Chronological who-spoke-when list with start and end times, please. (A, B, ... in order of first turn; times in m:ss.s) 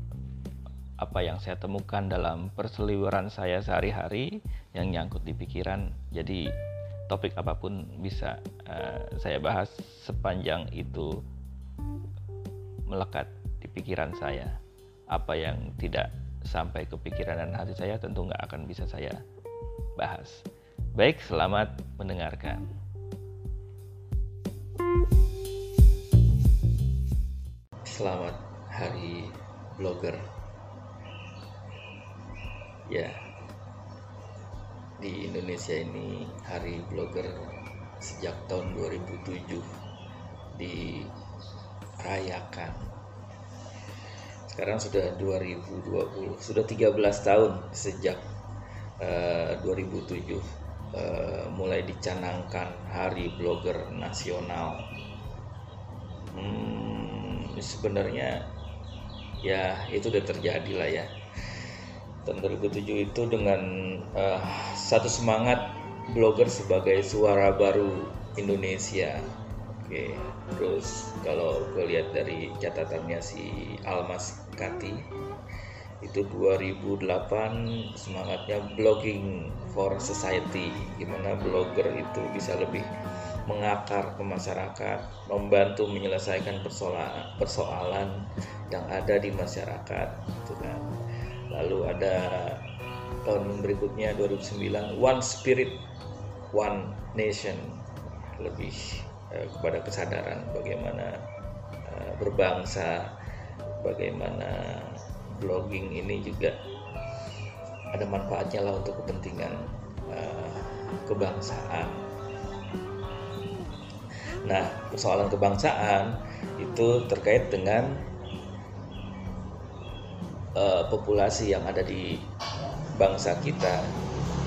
0:01.0-0:06.5 A
0:07.1-0:11.2 A
0:12.9-0:14.6 A
0:15.1-0:19.2 A
0:20.0-0:20.4 A
0:21.0-0:22.7 A
0:27.8-0:30.2 A
0:32.9-0:33.2 A
0:35.0-0:39.7 A
0:40.5-0:41.1 A
0:42.0-0:42.8 A
0:44.5-0:48.2 A
0:49.0-0:54.9 A
0:56.3-0:58.4 A
0:59.4-1:01.1 A
1:02.2-1:15.0 A
1:16.0-1:22.9 A
1:23.5-1:30.9 A
1:31.5-1:32.6 A
1:33.2-1:35.8 A
1:36.5-1:41.2 A
1:41.8-1:43.1 A
1:43.8-1:46.6 A
1:47.9-1:52.0 A
1:54.4-1:58.0 A
2:00.6-2:02.2 A
2:02.9-2:03.9 A